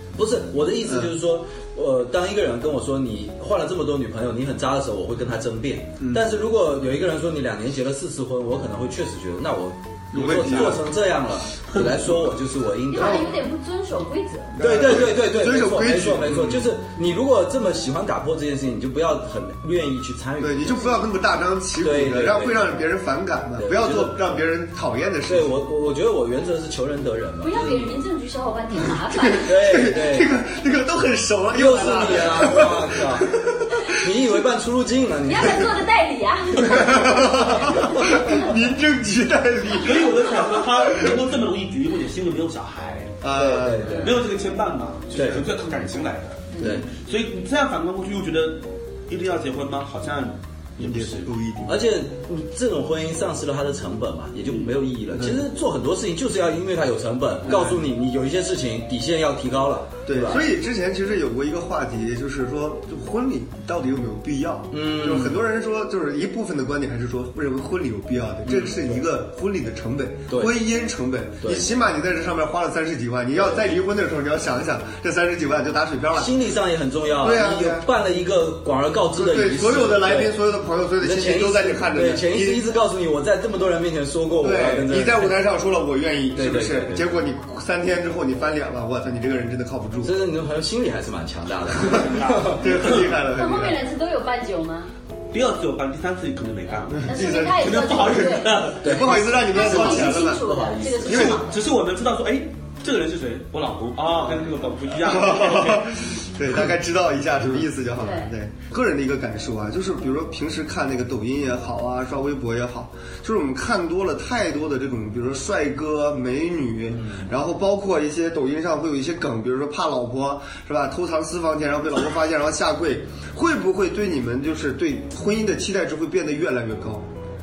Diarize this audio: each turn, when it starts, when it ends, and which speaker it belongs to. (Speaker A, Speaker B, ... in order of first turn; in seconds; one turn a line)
Speaker A: 0.1-13.3
Speaker B: 0.8-1.1
Speaker B: 6.0-6.2
Speaker B: 10.1-10.8
Speaker C: 10.2-10.8
Speaker D: 12.9-14.6
Speaker B: 13.0-13.3
Speaker B: 14.6-16.7
Speaker A: 14.6-21.0
Speaker B: 20.4-25.6
Speaker A: 21.8-22.8
Speaker A: 23.6-24.2
Speaker A: 25.3-27.9
Speaker D: 27.4-29.5
Speaker B: 29.2-33.9
Speaker A: 29.4-30.3
Speaker A: 31.5-35.8
Speaker D: 35.2-38.4
Speaker B: 36.6-41.2
Speaker C: 39.7-43.2
Speaker B: 43.2-44.1
Speaker A: 43.3-44.2
Speaker C: 43.9-51.3
Speaker A: 45.1-45.5
Speaker A: 46.6-46.9
Speaker B: 50.8-51.8
Speaker A: 51.6-60.4
Speaker B: 55.1-55.4
Speaker B: 57.5-57.8
Speaker B: 60.1-76.3
Speaker A: 64.7-65.4
Speaker A: 68.4-68.9
Speaker A: 70.3-70.5
Speaker A: 71.4-71.7
Speaker A: 76.1-80.4
Speaker B: 77.2-77.9
Speaker B: 79.1-82.7
Speaker A: 81.0-85.3
Speaker B: 84.4-90.1
Speaker A: 86.3-87.1
Speaker A: 90.0-92.6
Speaker C: 91.8-93.1
Speaker B: 91.9-93.8
Speaker D: 93.3-94.9
Speaker C: 95.3-99.0
Speaker B: 96.9-100.4
Speaker D: 97.0-98.7
Speaker A: 98.8-101.4
Speaker D: 99.3-101.5
Speaker B: 101.0-101.4
Speaker C: 101.3-106.0
Speaker B: 105.0-127.1
Speaker D: 108.0-108.3
Speaker A: 117.0-117.3